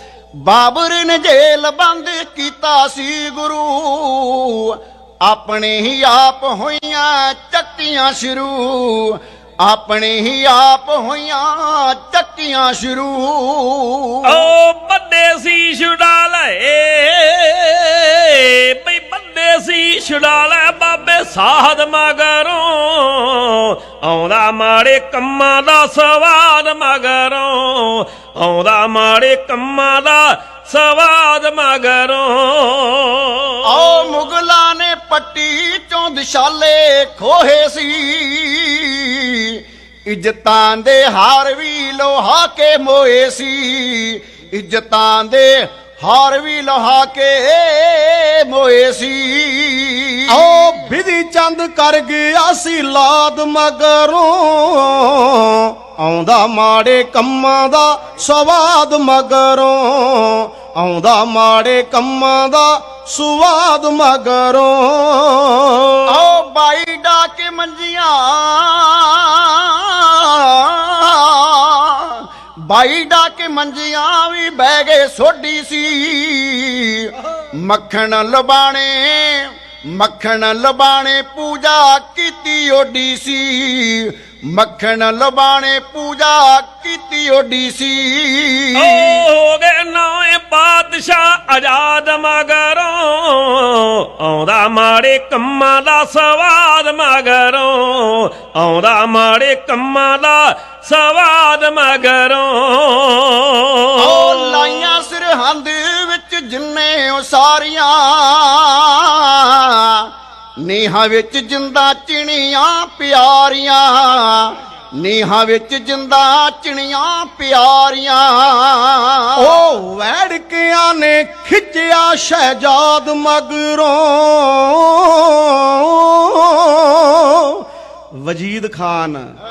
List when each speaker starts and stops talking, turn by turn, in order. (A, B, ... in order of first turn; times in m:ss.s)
0:00.4-0:14.5 A
0:14.2-0:34.2 B
0:33.6-0:50.2 A
0:50.3-1:06.0 C
1:06.1-1:29.2 A
1:28.8-1:44.9 B
1:44.0-1:50.1 A
1:50.6-1:59.3 A
1:59.4-2:07.6 C
2:08.2-2:09.2 C